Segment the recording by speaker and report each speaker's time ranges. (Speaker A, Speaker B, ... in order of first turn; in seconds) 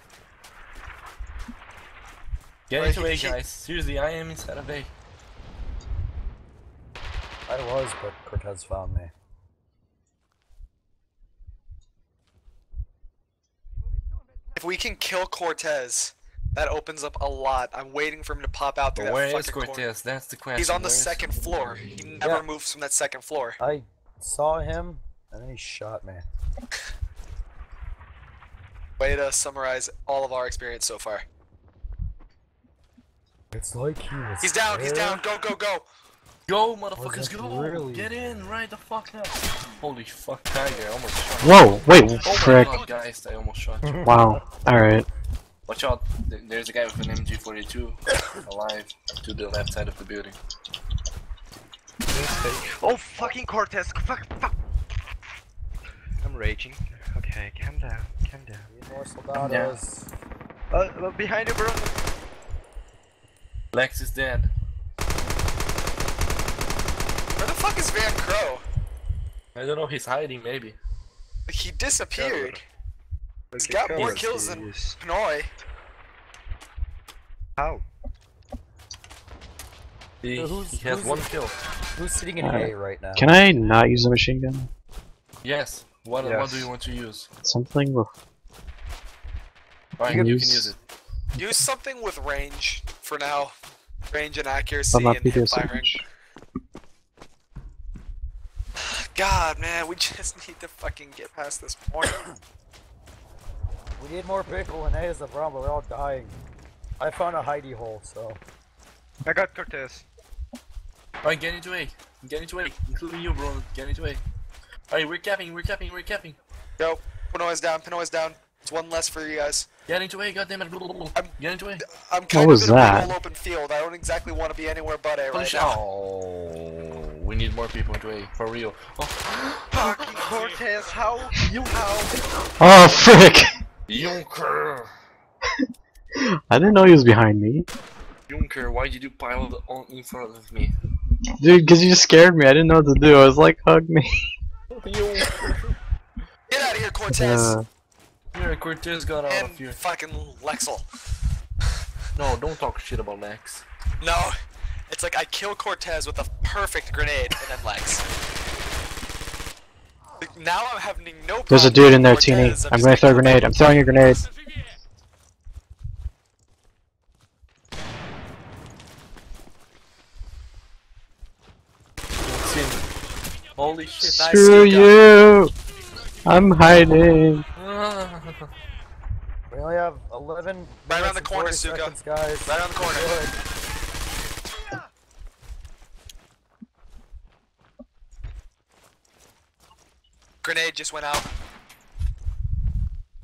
Speaker A: 2.7-4.9, 18.9-22.2, 36.5-41.7, 42.2-44.0, 45.7-50.4, 59.3-59.8, 63.7-64.5, 69.5-70.8, 73.9-74.2, 80.2-81.5, 85.4-87.3, 90.0-90.8, 111.2-114.2, 114.9-116.4, 119.9-121.8, 125.3-130.0, 133.9-134.9, 138.3-140.7, 144.7-145.8, 148.3-149.8, 152.1-153.7, 172.2-172.9, 173.6-174.2, 177.6-178.5
Speaker B: 2.7-3.4, 14.6-19.9, 20.6-23.6, 29.0-31.2, 34.4-35.8, 67.4-68.6, 71.5-72.6, 73.6-75.5, 91.4-93.5, 94.1-96.0, 98.8-102.2, 116.8-119.7, 121.1-125.8, 146.5-147.5, 149.3-150.8, 154.0-154.3, 154.9-158.0, 160.2-163.6, 174.1-174.9, 180.9-183.1, 190.4-191.3
Speaker C: 7.5-9.1, 22.2-22.5, 23.6-26.2, 33.5-35.2, 36.9-38.6, 43.8-44.4, 58.7-60.1, 72.1-72.5, 80.3-81.3, 82.0-83.3, 90.0-90.7, 102.0-102.4, 104.0-106.4, 107.0-108.4, 179.5-183.3
Speaker D: 41.4-42.8, 44.0-45.1, 82.4-84.7, 87.4-88.1, 90.1-90.7, 94.9-96.0, 122.3-123.1, 132.6-133.5, 136.2-137.7, 141.4-144.1, 147.1-147.7, 161.5-164.2, 174.0-175.5, 176.2-177.4
Speaker E: 52.1-54.5, 56.2-58.7, 60.7-61.9, 73.5-75.0, 77.6-77.8, 86.2-86.7, 109.2-110.0, 129.7-132.2